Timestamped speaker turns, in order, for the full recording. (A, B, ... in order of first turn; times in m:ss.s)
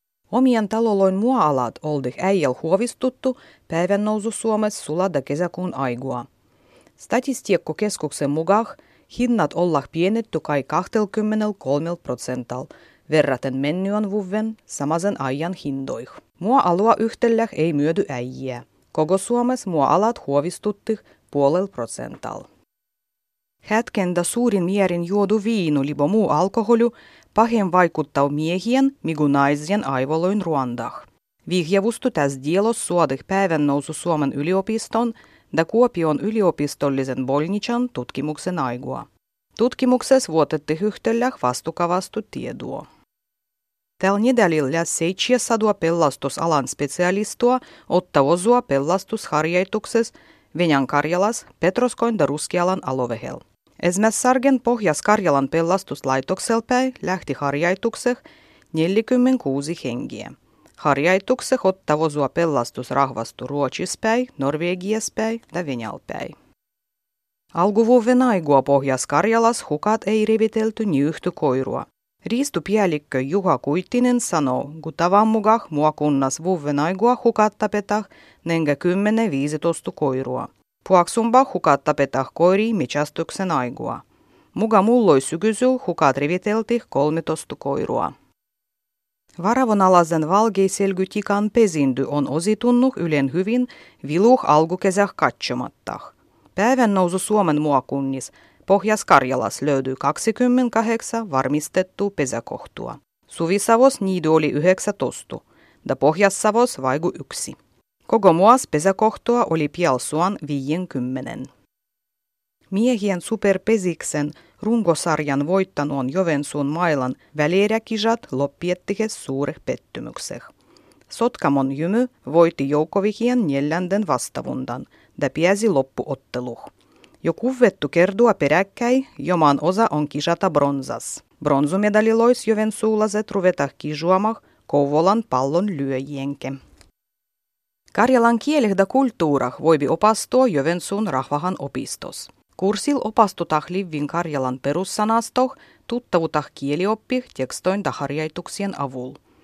0:00.3-0:06.3 A
0:07.0-0:22.5 A
0:23.6-0:42.9 A
0:44.0-1:06.4 A
1:07.5-1:28.1 A
1:29.4-1:51.5 A
1:52.7-2:00.5 A
2:01.1-2:06.7 A
2:07.2-2:16.6 A
2:17.9-2:29.2 A